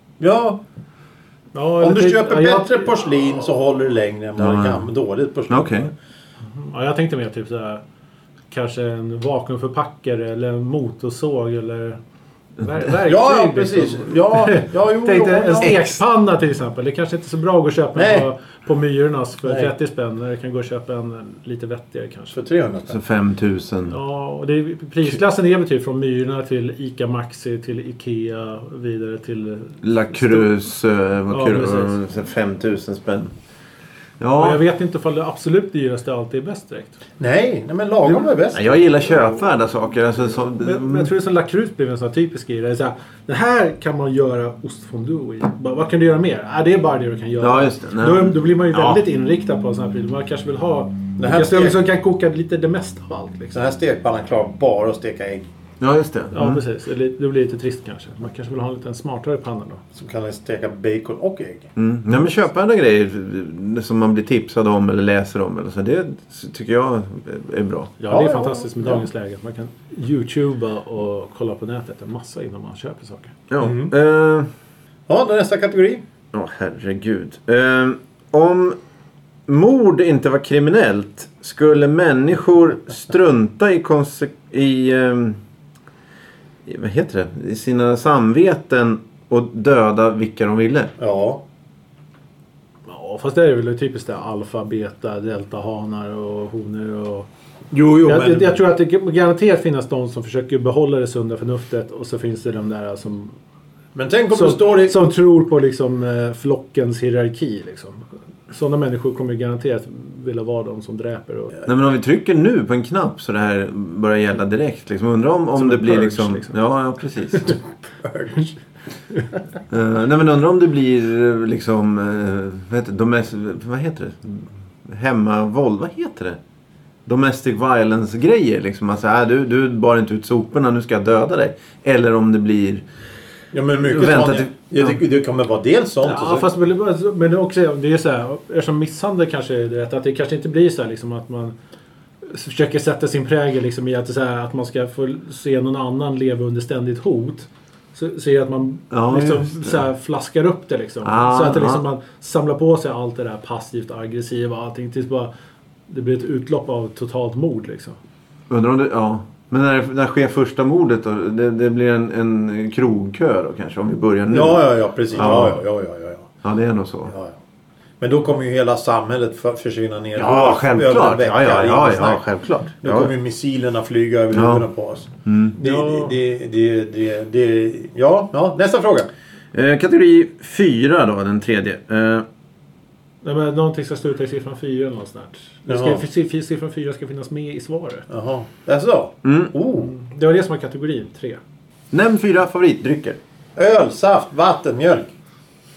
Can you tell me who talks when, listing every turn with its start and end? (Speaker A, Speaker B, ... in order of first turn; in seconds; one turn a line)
Speaker A: 0.2-0.6
Speaker B: 1.5-2.9
Speaker A: 1.8-5.9
Speaker C: 4.4-4.9
Speaker C: 5.5-5.9
Speaker B: 6.5-7.8
Speaker B: 8.5-12.0
Speaker B: 12.6-22.4
Speaker A: 13.1-15.9
Speaker A: 17.9-18.3
Speaker A: 19.4-19.7
Speaker A: 22.3-23.0
Speaker C: 22.9-24.0
Speaker B: 23.9-30.5
Speaker C: 29.8-33.3
Speaker B: 31.3-32.0
Speaker C: 34.2-34.6
Speaker B: 34.4-37.0
Speaker A: 37.2-39.4
Speaker C: 38.5-41.1
Speaker B: 40.6-53.6
Speaker C: 47.4-49.0
Speaker A: 51.2-51.8
Speaker A: 53.5-55.5
Speaker C: 55.8-56.6
Speaker B: 56.3-59.8
Speaker A: 60.0-61.7
Speaker C: 61.8-67.9
Speaker B: 68.0-73.3
Speaker A: 68.1-69.1
Speaker C: 73.5-74.5
Speaker A: 73.6-73.9
Speaker A: 75.1-76.0
Speaker C: 76.3-78.8
Speaker C: 79.5-85.4
Speaker C: 86.7-90.9
Speaker A: 91.0-91.4
Speaker B: 92.9-97.3
Speaker A: 97.7-98.6
Speaker B: 98.0-103.4
Speaker A: 104.0-105.0
Speaker B: 104.3-111.6
Speaker C: 111.7-117.6
Speaker B: 115.6-116.5
Speaker A: 117.5-118.6
Speaker C: 119.7-126.4
Speaker C: 127.1-132.8
Speaker A: 133.5-136.5
Speaker C: 133.8-134.5
Speaker B: 136.0-141.6
Speaker B: 142.2-155.3
Speaker C: 148.9-149.9
Speaker C: 151.0-151.9
Speaker B: 155.9-158.0
Speaker C: 158.5-165.6
Speaker A: 164.3-166.3
Speaker C: 166.4-167.1
Speaker A: 167.1-167.4
Speaker A: 168.0-172.2
Speaker C: 170.2-173.1
Speaker A: 172.8-179.1
Speaker C: 174.3-174.7
Speaker C: 175.2-175.6
Speaker B: 175.6-176.2
Speaker C: 179.5-182.2
Speaker B: 183.2-188.1
Speaker A: 185.7-186.1
Speaker A: 188.1-189.9
Speaker C: 189.2-189.5
Speaker B: 189.8-191.4
Speaker C: 191.9-193.2
Speaker A: 193.6-195.1